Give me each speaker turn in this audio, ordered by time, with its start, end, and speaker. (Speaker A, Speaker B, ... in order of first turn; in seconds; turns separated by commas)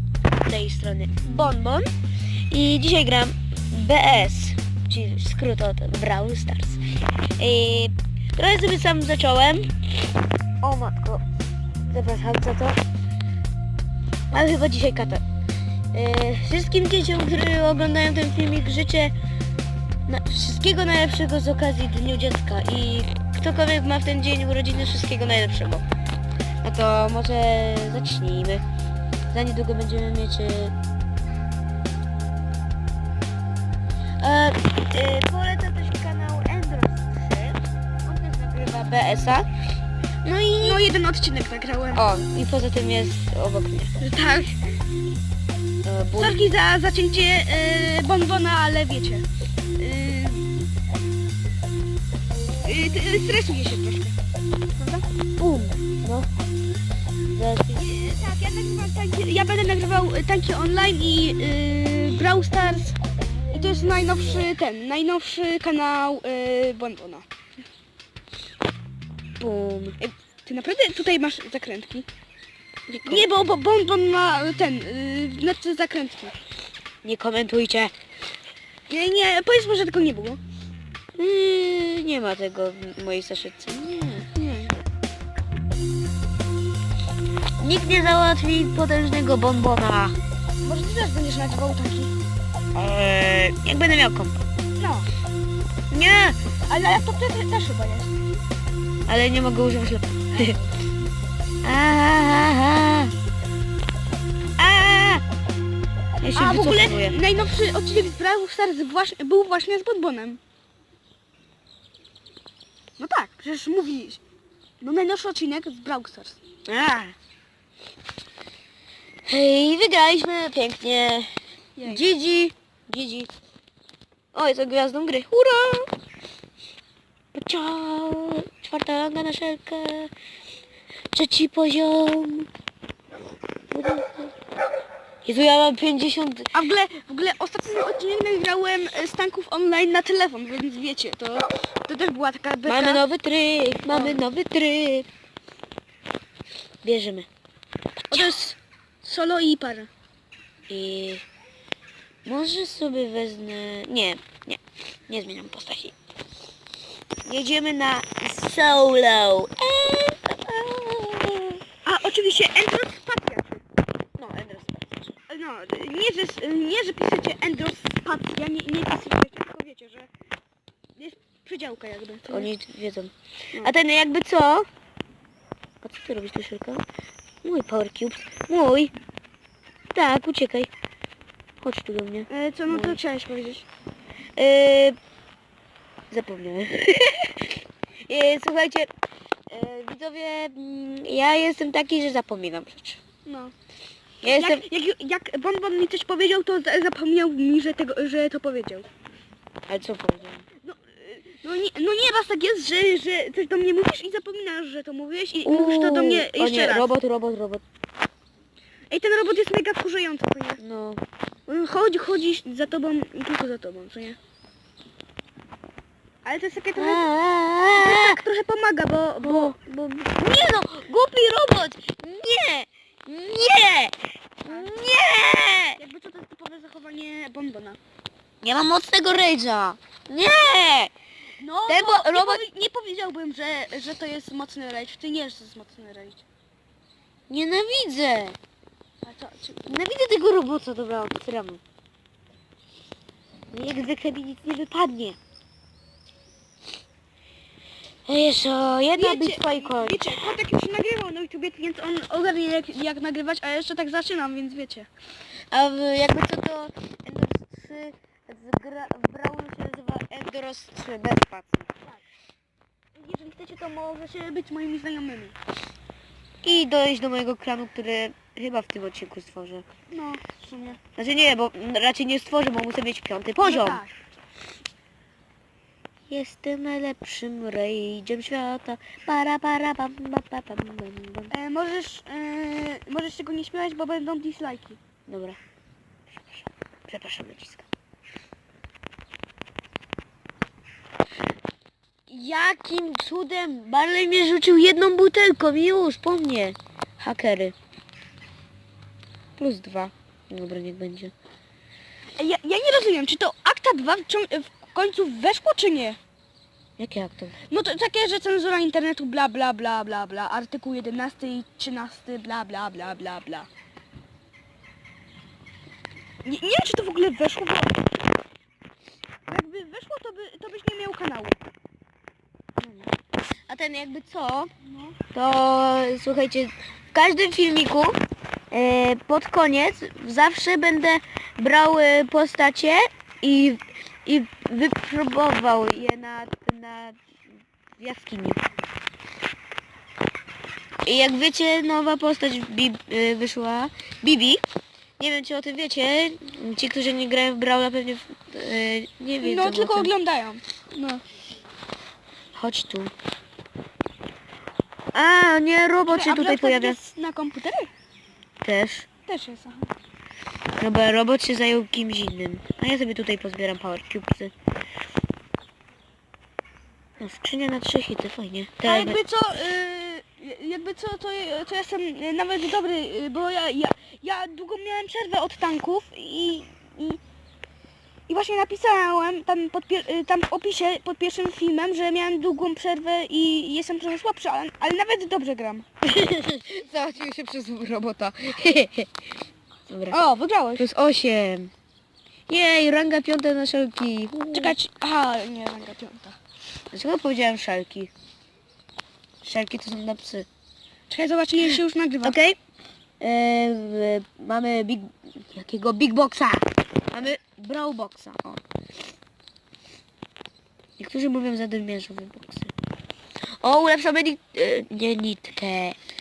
Speaker A: 0.4-1.9, Speaker A: 2.5-6.8, Speaker A: 7.4-9.7, Speaker A: 10.6-11.2, Speaker A: 11.9-12.8, Speaker A: 14.3-15.2, Speaker A: 15.9-19.1, Speaker A: 20.1-25.8, Speaker A: 26.6-28.6, Speaker A: 29.3-30.7, Speaker A: 34.2-39.5, Speaker A: 40.2-40.8, Speaker B: 40.6-42.0, Speaker A: 41.9-43.9, Speaker B: 44.0-44.6, Speaker A: 45.8-46.4, Speaker B: 46.1-49.2, Speaker B: 49.8-50.5, Speaker B: 52.6-54.1, Speaker A: 54.8-56.3, Speaker A: 57.3-57.8, Speaker B: 57.7-63.0, Speaker B: 63.5-67.2, Speaker A: 69.4-70.0, Speaker B: 70.0-72.1, Speaker A: 72.9-73.2, Speaker B: 73.0-76.4, Speaker A: 77.0-77.9, Speaker B: 78.9-80.4, Speaker A: 81.2-84.3, Speaker B: 84.3-84.8, Speaker A: 87.6-90.2, Speaker B: 90.6-92.1, Speaker A: 92.7-94.4, Speaker B: 94.8-95.1, Speaker A: 95.9-96.4, Speaker B: 96.7-98.1, Speaker A: 99.1-100.5, Speaker B: 100.3-100.7, Speaker A: 101.6-103.1, Speaker A: 104.6-105.2, Speaker A: 106.2-107.2, Speaker B: 106.3-110.4, Speaker B: 113.0-114.2, Speaker B: 114.8-116.4, Speaker A: 116.7-117.1, Speaker A: 119.2-121.3, Speaker B: 121.8-122.0, Speaker A: 121.8-123.3, Speaker A: 124.3-125.9, Speaker A: 127.3-130.1, Speaker A: 131.1-132.5, Speaker A: 133.7-134.3, Speaker A: 135.2-136.5, Speaker B: 136.5-143.0, Speaker A: 142.7-145.1, Speaker B: 143.9-144.2, Speaker A: 146.8-147.3, Speaker B: 148.1-149.9, Speaker A: 150.7-151.2, Speaker A: 152.2-155.9, Speaker A: 157.2-161.6, Speaker B: 161.8-163.6, Speaker A: 164.2-165.1, Speaker B: 165.3-170.1, Speaker B: 171.0-172.5, Speaker A: 172.3-174.7, Speaker A: 175.8-176.8, Speaker A: 177.4-178.9, Speaker A: 179.9-180.7, Speaker A: 181.6-183.0, Speaker B: 182.3-183.6, Speaker A: 184.4-184.9, Speaker A: 186.1-188.9, Speaker A: 189.5-193.0, Speaker B: 193.2-193.5, Speaker A: 194.2-194.6, Speaker B: 194.3-198.9, Speaker A: 199.7-200.4, Speaker B: 200.6-206.9, Speaker A: 205.4-207.6, Speaker B: 208.9-210.6, Speaker A: 210.6-211.0, Speaker B: 211.5-214.2, Speaker B: 216.2-217.1, Speaker A: 216.8-218.2, Speaker B: 217.7-219.5, Speaker A: 219.2-225.8, Speaker B: 224.5-225.0, Speaker B: 225.8-227.8, Speaker A: 228.4-230.9, Speaker B: 231.4-236.2, Speaker A: 231.7-232.4, Speaker A: 237.3-238.4, Speaker B: 239.0-239.8, Speaker A: 239.7-241.6, Speaker A: 243.5-245.2, Speaker A: 248.1-250.1, Speaker B: 248.9-254.9, Speaker A: 255.5-261.7, Speaker B: 262.9-265.4, Speaker A: 266.4-269.6, Speaker B: 269.9-270.8, Speaker A: 270.9-273.8, Speaker B: 273.4-274.0, Speaker A: 276.1-281.3, Speaker B: 281.3-284.8, Speaker A: 285.1-285.4, Speaker A: 286.2-287.7, Speaker A: 292.1-297.5, Speaker A: 299.4-301.1, Speaker B: 302.2-306.0, Speaker A: 306.8-307.4, Speaker B: 307.5-313.5, Speaker B: 316.2-317.9, Speaker B: 319.3-321.4, Speaker A: 322.6-322.9, Speaker A: 323.5-324.5, Speaker A: 325.1-328.0, Speaker A: 328.5-337.0, Speaker A: 337.8-338.4, Speaker A: 340.8-344.4, Speaker A: 345.0-349.9, Speaker B: 349.2-351.0, Speaker A: 352.3-352.9, Speaker A: 354.9-356.8, Speaker B: 355.9-357.7, Speaker A: 358.4-358.9, Speaker B: 359.1-359.7, Speaker A: 360.6-364.3, Speaker A: 367.0-369.0, Speaker B: 368.6-377.0, Speaker B: 378.1-385.6, Speaker A: 385.8-388.9, Speaker A: 389.7-390.0, Speaker B: 389.9-390.6, Speaker A: 390.6-391.5, Speaker A: 392.3-394.6, Speaker B: 394.3-396.2, Speaker A: 396.7-397.9, Speaker A: 399.2-400.3, Speaker B: 400.9-402.1, Speaker A: 401.5-402.4, Speaker A: 403.0-408.4, Speaker A: 410.8-412.5, Speaker A: 413.4-415.8